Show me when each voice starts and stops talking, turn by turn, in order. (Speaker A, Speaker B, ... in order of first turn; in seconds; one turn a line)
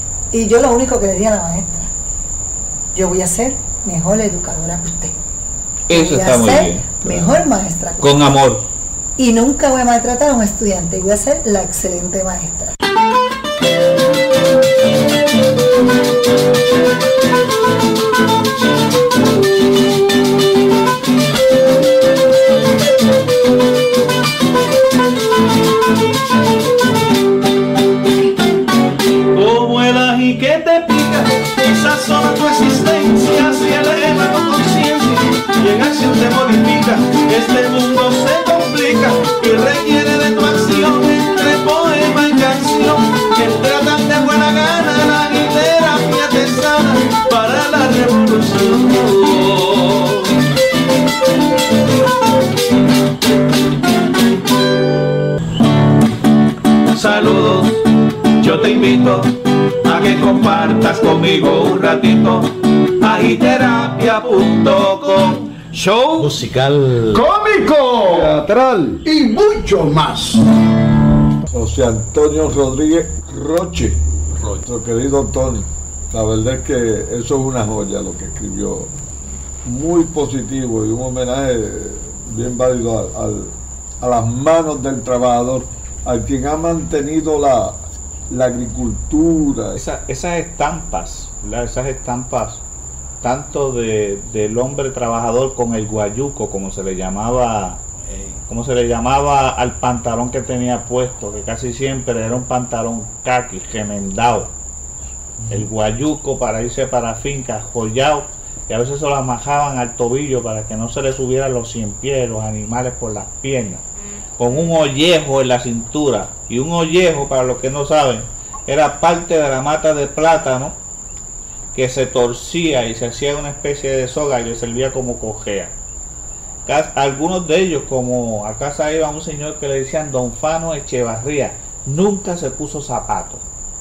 Speaker A: 0.3-1.9
Speaker A: 2.9-5.1
Speaker B: 5.9-7.4
Speaker A: 5.9-8.3
Speaker B: 8.0-8.7
Speaker A: 9.2-12.8
Speaker C: 29.3-50.4
Speaker C: 56.9-67.2
Speaker D: 67.1-70.0
Speaker E: 67.2-70.4
Speaker D: 71.5-74.0
Speaker D: 74.6-78.9
Speaker D: 79.6-87.8
Speaker D: 88.3-89.8
Speaker B: 89.8-92.6
Speaker B: 93.2-97.8
Speaker C: 98.0-98.4
Speaker B: 98.5-104.5
Speaker B: 105.5-113.8
Speaker B: 114.4-120.8
Speaker B: 121.7-125.7
Speaker B: 126.7-133.4